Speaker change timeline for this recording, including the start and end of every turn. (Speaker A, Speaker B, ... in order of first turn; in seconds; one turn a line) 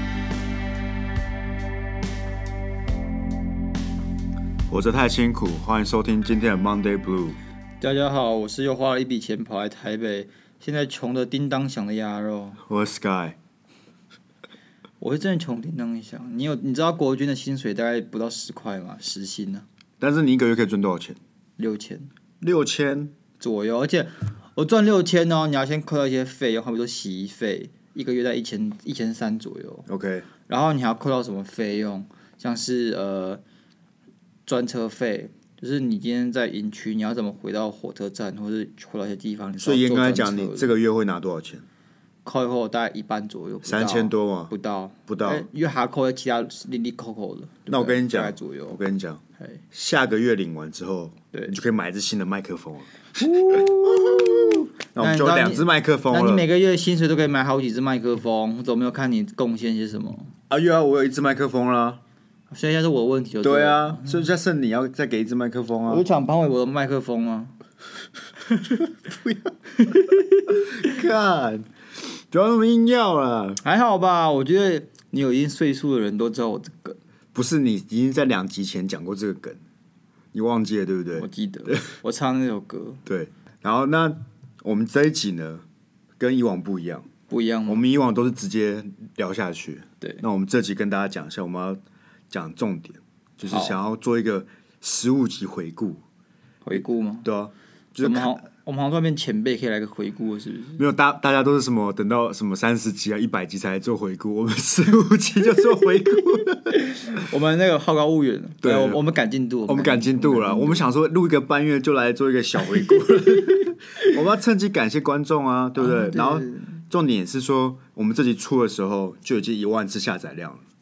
Speaker A: 4.7-7.4
Speaker B: 7.8-12.6
Speaker A: 12.7-13.4
Speaker B: 15.0-19.6
Speaker A: 20.0-21.2
Speaker B: 21.6-22.1
Speaker A: 22.4-23.1
Speaker B: 23.4-29.9
Speaker A: 29.9-30.3
Speaker B: 30.5-33.4
Speaker B: 34.5-40.7
Speaker A: 39.6-41.6
Speaker B: 42.2-48.8
Speaker A: 43.6-44.5
Speaker A: 45.1-45.5
Speaker A: 47.7-49.2
Speaker A: 49.7-56.5
Speaker B: 53.2-60.3
Speaker A: 60.5-62.0
Speaker B: 62.5-64.2
Speaker A: 63.4-66.0
Speaker B: 65.9-67.5
Speaker A: 69.1-69.5
Speaker B: 69.8-70.6
Speaker A: 70.5-71.7
Speaker A: 72.3-73.6
Speaker B: 73.6-77.0
Speaker A: 77.3-79.6
Speaker A: 80.3-81.8
Speaker B: 81.2-83.0
Speaker A: 83.1-85.7
Speaker A: 86.2-87.1
Speaker B: 87.3-87.8
Speaker A: 87.7-91.8
Speaker A: 92.3-96.0
Speaker B: 93.5-93.8
Speaker B: 96.6-97.3
Speaker A: 97.2-98.4
Speaker B: 98.0-100.8
Speaker A: 100.8-106.8
Speaker B: 106.7-110.8
Speaker A: 108.6-109.0
Speaker A: 109.7-120.6
Speaker B: 115.8-116.7